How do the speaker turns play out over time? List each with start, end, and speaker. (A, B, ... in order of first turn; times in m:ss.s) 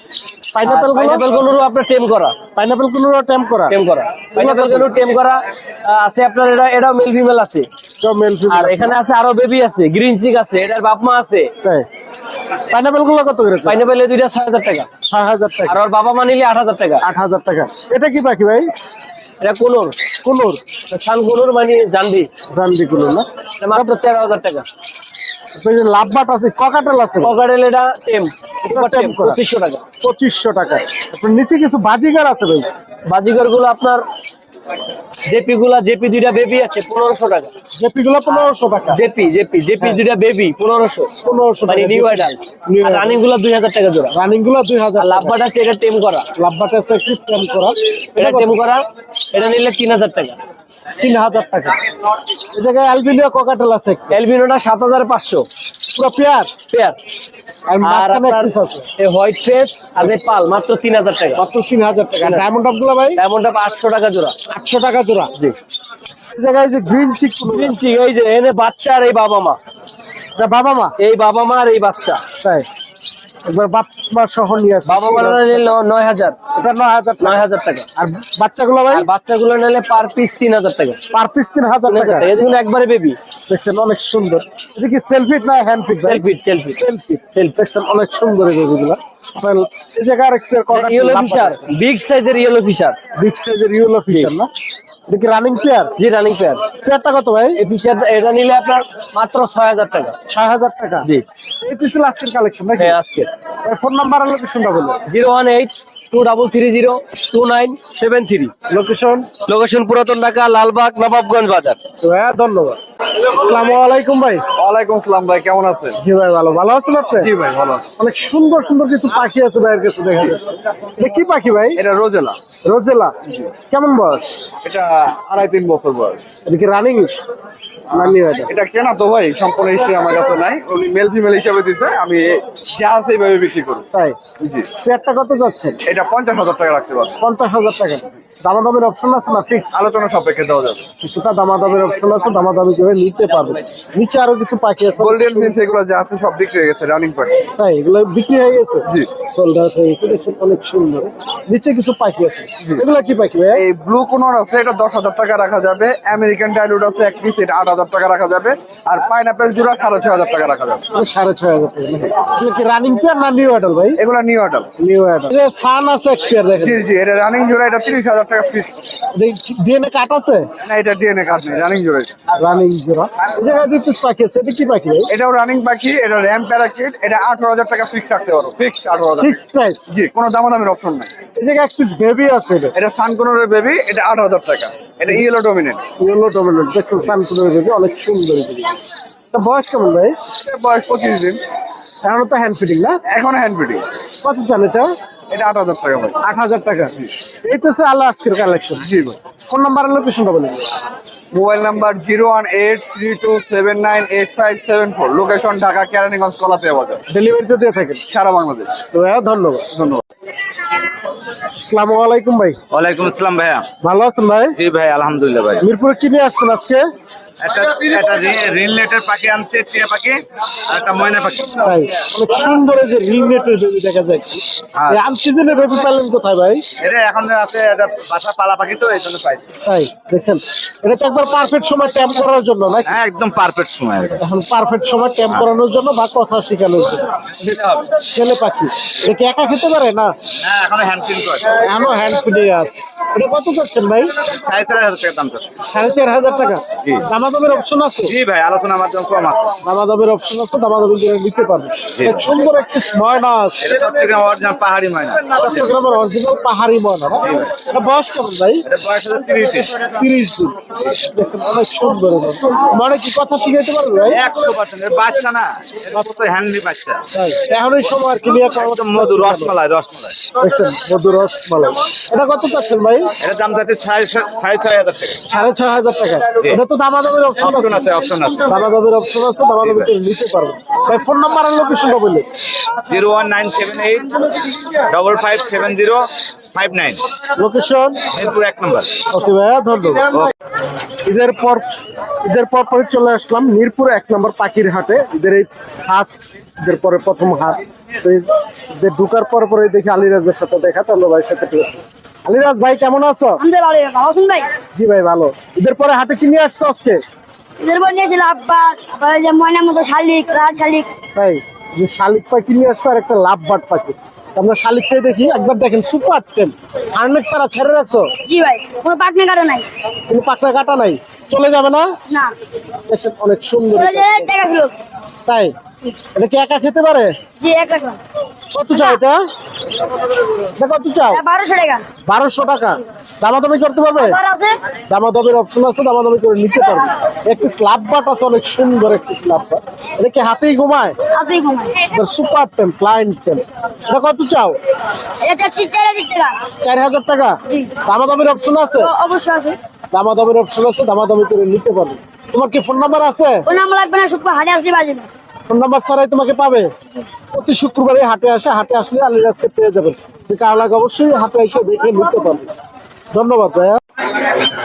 0:00.5-0:01.5 A
0:00.6-0:02.4 B
0:02.5-0:03.8 A
0:03.7-0:07.7 B
0:04.3-0:05.0 A
0:08.0-0:09.0 A
0:08.5-0:11.5 B
0:12.7-0:13.8 A
0:13.6-0:14.9 B
0:15.0-0:15.8 A
0:15.7-0:17.0 B
0:17.0-0:18.7 A
0:19.4-0:19.9 B
0:20.2-0:20.6 A
0:20.9-0:22.3 B
0:22.5-0:24.0 A
0:23.6-0:24.7 B
0:25.6-0:27.4 A
0:27.2-0:29.8 B
0:28.6-0:29.4 A
0:30.0-0:32.7 A
0:33.1-0:34.0 B
0:35.2-0:37.5 B
0:37.7-0:39.0 A
0:38.9-0:41.1 B
0:41.2-0:43.2 A
0:41.7-0:44.1 B
0:44.2-0:45.4 A
0:45.0-0:46.3 B
0:46.3-0:48.5 A
0:48.2-0:50.4 B
0:51.0-0:51.8 A
0:52.4-0:54.2 A
0:54.1-0:55.4 B
0:55.9-0:56.5 A
0:56.7-0:57.0 B
0:57.7-0:58.9 A
0:57.8-1:01.4 B
1:01.4-1:03.2 A
1:02.2-1:02.5 B
1:03.2-1:04.4 B
1:04.5-1:05.3 A
1:06.3-1:07.8 A
1:07.4-1:09.6 B
1:10.4-1:10.9 A
1:11.0-1:12.2 B
1:12.3-1:12.7 A
1:13.4-1:15.7 A
1:14.9-1:16.4 B
1:16.5-1:17.4 A
1:17.2-1:17.8 B
1:18.0-1:19.1 A
1:18.9-1:21.0 B
1:21.1-1:22.3 A
1:21.9-1:23.2 B
1:23.5-1:31.7 A
1:26.0-1:26.8 B
1:30.7-1:33.0 B
1:33.1-1:34.5 A
1:35.1-1:35.9 A
1:36.0-1:36.6 B
1:36.8-1:37.6 A
1:37.6-1:40.2 B
1:40.3-1:41.1 A
1:41.6-1:43.0 A
1:42.8-1:43.3 B
1:43.6-1:45.0 A
1:45.1-1:48.5 B
1:48.7-1:49.3 A
1:49.4-1:51.8 B
1:52.0-1:54.4 A
1:54.6-1:56.0 C
1:56.0-1:57.3 A
1:57.2-1:57.9 C
1:58.0-2:01.8 A
2:01.8-2:02.4 C
2:02.6-2:04.4 A
2:04.6-2:06.2 C
2:06.4-2:07.1 A
2:07.9-2:08.5 A
2:08.0-2:13.9 C
2:13.9-2:14.2 A
2:14.4-2:14.7 C
2:14.8-2:15.8 A
2:15.8-2:17.2 C
2:17.2-2:19.8 A
2:19.7-2:20.8 C
2:21.0-2:25.6 A
2:25.0-2:27.4 C
2:27.6-2:33.6 A
2:33.5-2:40.8 C
2:40.9-2:44.0 A
2:44.0-2:44.7 C
2:44.8-2:46.8 A
2:46.6-2:48.7 C
2:49.1-2:50.5 A
2:50.6-2:52.2 C
2:52.4-2:55.1 A
2:55.1-2:59.4 C
2:59.2-2:59.8 A
2:59.9-3:01.1 C
3:01.4-3:02.8 A
3:02.7-3:05.8 C
3:06.0-3:08.8 A
3:09.3-3:10.2 A
3:10.3-3:11.4 C
3:12.0-3:13.0 A
3:13.1-3:13.8 C
3:14.2-3:14.9 A
3:15.3-3:16.2 C
3:16.2-3:18.8 A
3:18.8-3:19.2 C
3:19.5-3:20.7 A
3:21.3-3:27.0 C
3:27.1-3:28.0 A
3:28.1-3:28.8 C
3:28.9-3:29.8 A
3:31.6-3:32.6 A
3:32.7-3:33.7 D
3:33.8-3:34.6 A
3:34.6-3:35.6 D
3:35.6-3:36.8 A
3:37.4-3:41.6 D
3:41.6-3:46.6 A
3:46.8-3:49.4 D
3:49.6-3:53.0 A
3:52.8-3:54.2 D
3:54.2-3:57.1 A
3:57.3-3:57.9 D
3:57.9-4:00.1 A
4:00.4-4:01.5 D
4:01.5-4:04.3 A
4:04.3-4:05.5 D
4:05.7-4:08.1 A
4:08.0-4:09.5 D
4:09.6-4:13.7 A
4:13.6-4:15.6 D
4:15.4-4:18.6 A
4:18.6-4:19.7 D
4:19.8-4:24.2 A
4:24.1-4:27.0 D
4:27.1-4:29.6 A
4:28.4-4:30.3 D
4:30.4-4:33.1 A
4:33.2-4:35.2 D
4:35.2-4:37.8 A
4:37.4-4:38.5 D
4:38.4-4:42.3 A
4:39.6-4:39.9 D
4:42.8-4:47.1 D
4:47.3-4:48.0 A
4:48.1-4:49.0 D
4:49.1-4:50.1 A
4:51.0-4:51.6 A
4:52.2-5:03.4 A
5:03.4-5:04.5 E
5:04.6-5:07.0 A
5:07.6-5:10.9 E
5:11.1-5:18.1 A
5:18.2-5:19.7 E
5:20.1-5:21.9 A
5:22.9-5:24.3 A
5:23.7-5:24.7 E
5:25.2-5:25.5 A
5:26.1-5:27.2 A
5:27.4-5:28.0 E
5:28.5-5:29.2 A
5:28.7-5:29.0 E
5:30.4-5:31.2 A
5:31.1-5:31.9 E
5:32.0-5:34.2 A
5:34.0-5:34.6 E
5:34.8-5:41.0 A
5:41.1-5:41.9 E
5:41.9-5:44.6 A
5:45.2-5:46.5 E
5:46.5-5:48.9 A
5:48.8-5:49.6 E
5:49.9-5:53.5 A
5:53.5-5:55.1 E
5:55.5-6:02.5 A
6:03.1-6:03.8 A